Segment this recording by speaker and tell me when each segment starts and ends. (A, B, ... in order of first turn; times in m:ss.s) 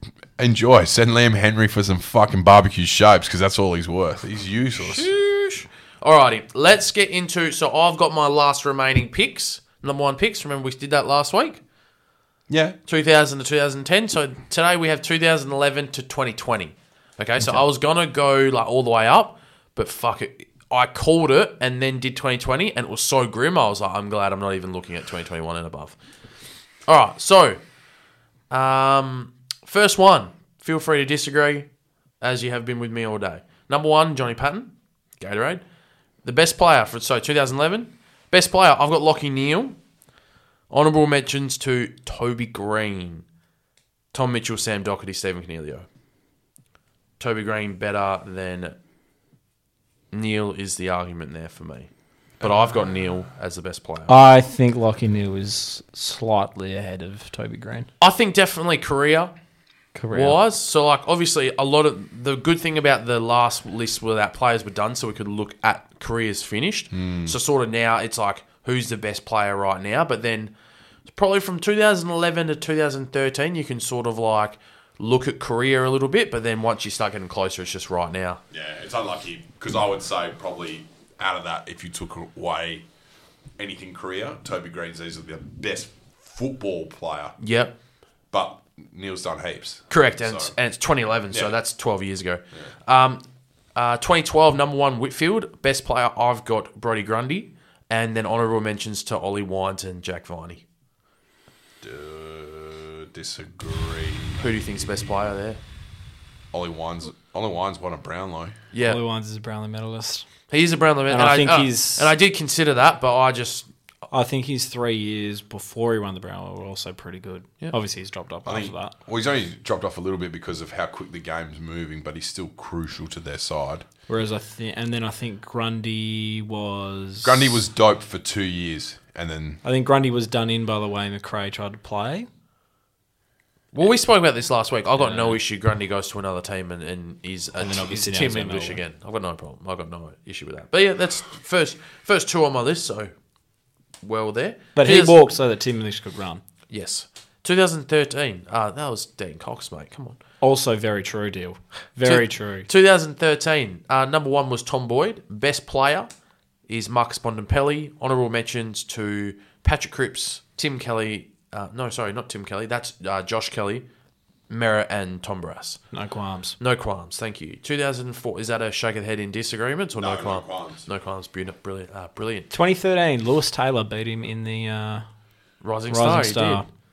0:00.4-0:05.1 A
0:04.8-0:11.6 B
0:12.5-0:12.8 A
0:12.9-0:26.0 B
0:26.9-0:27.6 B
0:28.5-0:31.6 B
0:32.2-0:35.6 B
0:36.2-0:39.8 B
0:40.7-0:43.2 B
0:44.1-0:45.8 B
0:47.2-0:48.7 B
0:50.1-0:51.9 B
0:52.4-0:54.1 B
0:54.1-0:57.9 C
0:58.0-0:59.3 B
0:59.9-1:00.4 C
1:00.1-1:10.5 B
1:06.9-1:07.4 A
1:11.1-1:18.4 B
1:18.5-1:22.8 A
1:23.6-1:27.4 A
1:27.4-1:27.7 B
1:28.3-1:30.5 A
1:29.9-1:33.2 B
1:33.7-1:40.6 B
1:41.8-1:44.5 A
1:44.4-1:45.6 B
1:46.5-1:48.5 A
1:48.7-1:49.0 B
1:48.8-1:50.2 C
1:50.5-1:53.7 B
1:51.1-1:52.1 C
1:54.1-1:58.9 C
1:58.4-2:03.8 A
2:04.1-2:07.6 C
2:07.2-2:09.6 A
2:09.6-2:12.3 C
2:13.7-2:23.1 B
2:15.0-2:15.4 C
2:17.6-2:18.8 C
2:24.0-2:25.2 B
2:24.8-2:26.4 C
2:26.7-2:30.2 B
2:30.4-2:32.7 C
2:32.0-2:36.1 B
2:36.7-2:43.8 B
2:44.5-2:45.8 B
2:45.9-2:46.6 C
2:46.6-2:52.5 B
2:50.0-2:50.8 A
2:52.5-2:55.0 C
2:55.6-2:56.6 B
2:55.9-2:56.6 C